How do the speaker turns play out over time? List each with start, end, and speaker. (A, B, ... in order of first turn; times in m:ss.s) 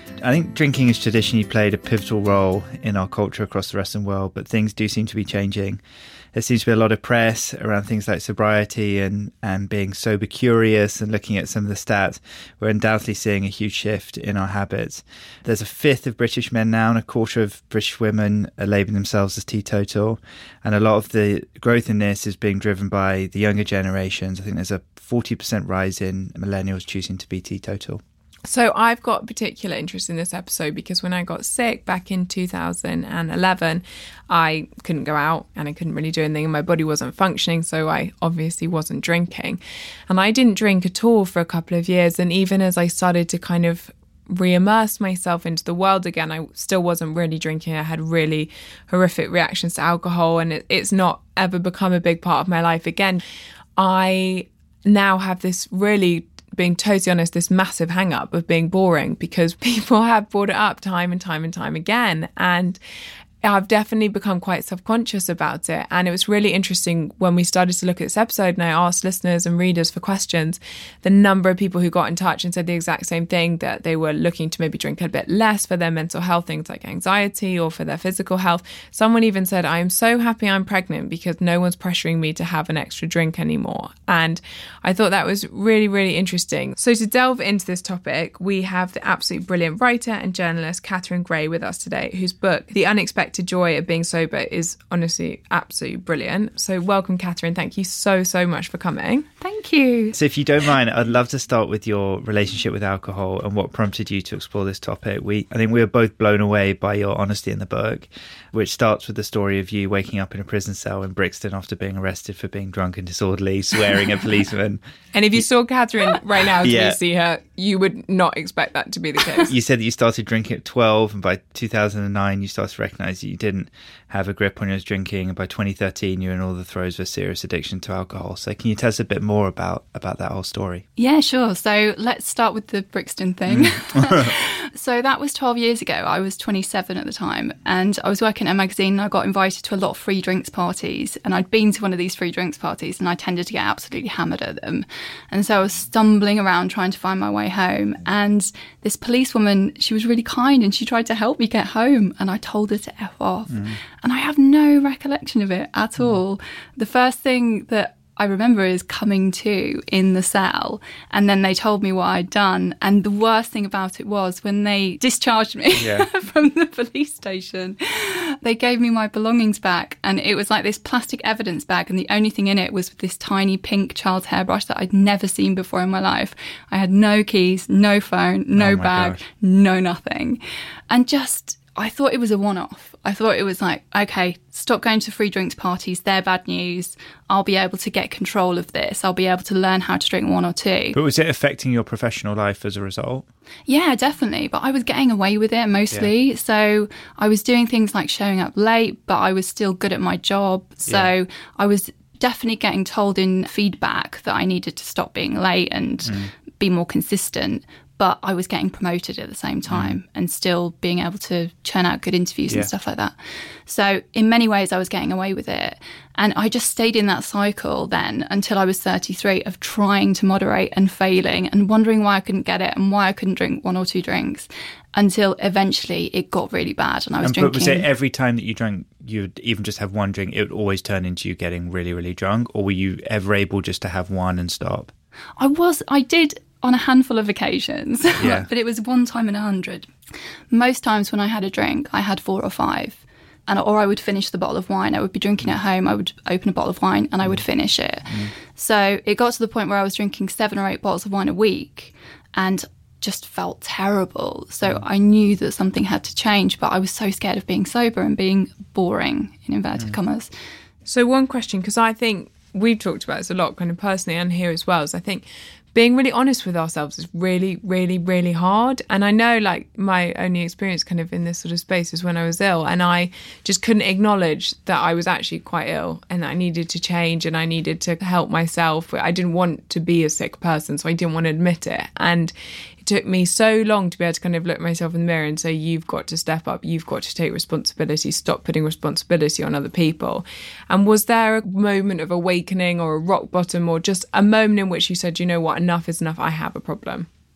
0:00.2-0:05.8 A
0:06.3-0:28.0 A
0:28.4-0:53.2 B
0:53.8-1:02.8 B
1:03.4-1:39.3 B
1:39.4-1:40.2 C
1:40.1-1:54.8 A
1:55.1-1:59.5 B
1:56.6-1:57.0 A
1:59.4-2:10.8 A
2:11.0-3:11.0 C
2:13.5-2:14.3 A
2:45.8-2:46.1 A
2:58.6-2:59.2 A
3:10.9-3:13.2 A
3:13.7-3:33.1 C
3:20.9-3:21.1 A
3:29.7-3:30.0 A
3:33.6-3:47.9 C
3:47.2-3:54.9 A
3:55.4-3:59.9 C
3:58.2-3:58.5 A
4:00.5-4:20.3 C
4:08.1-4:08.3 A
4:20.8-4:25.2 B
4:25.7-4:57.1 B